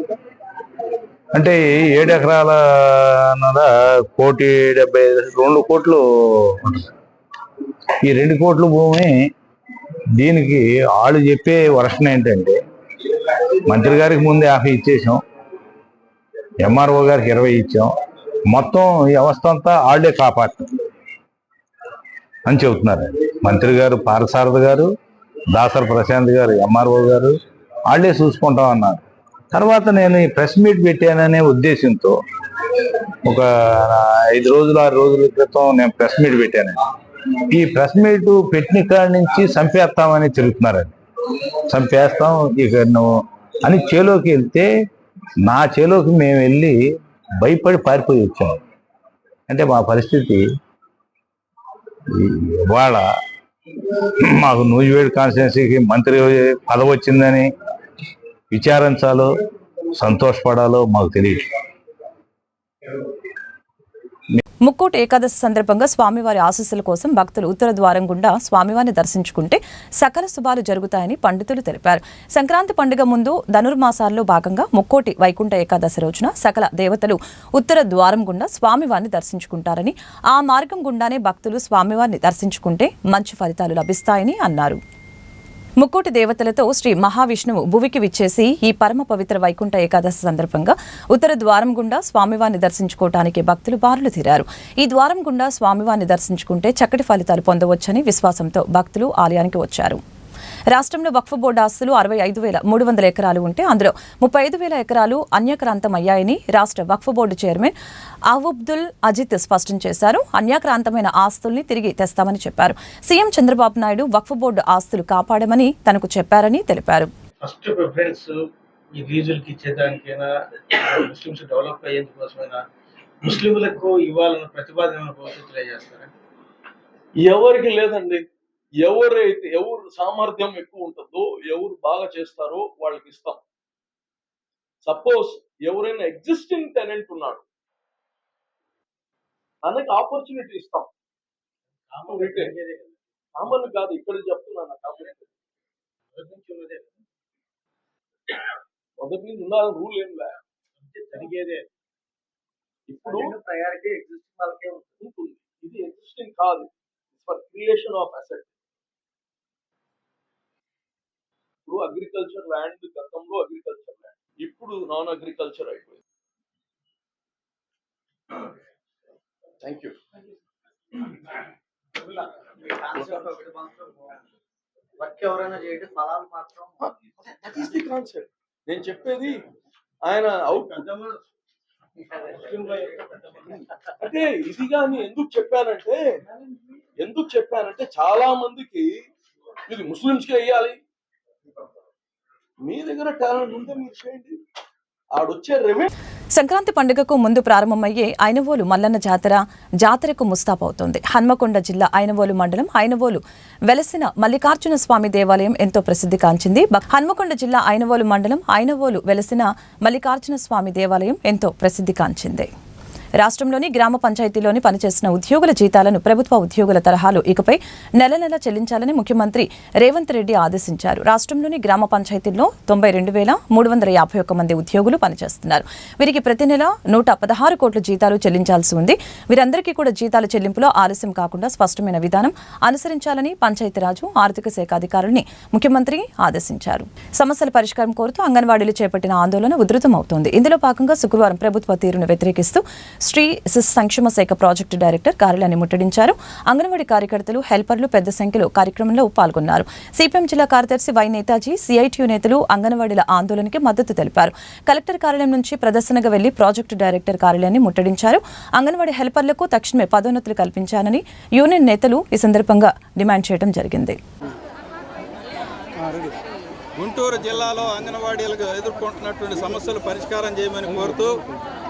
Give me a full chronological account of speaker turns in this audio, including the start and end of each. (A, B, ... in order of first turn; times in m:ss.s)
0:01.3-0:06.9 A
0:08.0-0:09.1 A
0:10.2-0:12.6 A
0:13.6-0:15.2 A
0:16.6-0:17.9 A
0:18.5-0:20.8 A
0:22.5-0:24.9 A
0:25.5-0:32.2 A
0:33.2-0:36.8 A
0:37.5-0:41.0 A
0:41.7-0:44.7 A
0:45.4-0:46.8 A
0:47.4-0:48.6 A
0:49.5-0:50.5 A
0:52.1-0:53.1 A
0:54.0-0:57.5 A
0:58.5-0:59.4 A
0:59.9-1:01.5 A
1:04.6-1:24.8 B
1:25.8-1:40.0 B
1:40.7-1:47.7 B
1:48.3-1:57.1 B
1:57.4-1:58.4 C
1:59.0-2:02.6 C
2:03.2-2:06.1 C
2:07.2-2:08.3 D
2:08.8-2:13.4 D
2:14.8-2:17.4 D
2:19.6-2:20.9 D
2:21.9-2:22.9 C
2:22.1-2:22.5 D
2:23.4-2:25.3 D
2:26.1-2:27.0 C
2:29.0-2:30.4 D
2:30.8-2:31.6 C
2:32.9-2:33.3 D
2:33.0-2:35.0 C
2:35.0-2:38.5 D
2:41.7-2:46.0 D
2:49.6-2:50.0 D
2:52.0-2:54.2 C
2:53.0-2:53.2 D
2:55.0-2:56.8 C
2:56.8-2:59.4 D
3:00.0-3:00.9 D
3:00.6-3:01.2 C
3:02.1-3:03.5 C
3:04.0-3:06.2 D
3:07.0-3:09.1 D
3:09.7-3:10.8 D
3:12.6-3:14.4 D
3:15.2-3:15.9 D
3:16.4-3:32.5 B
3:33.2-4:24.0 B
4:26.8-4:31.2 E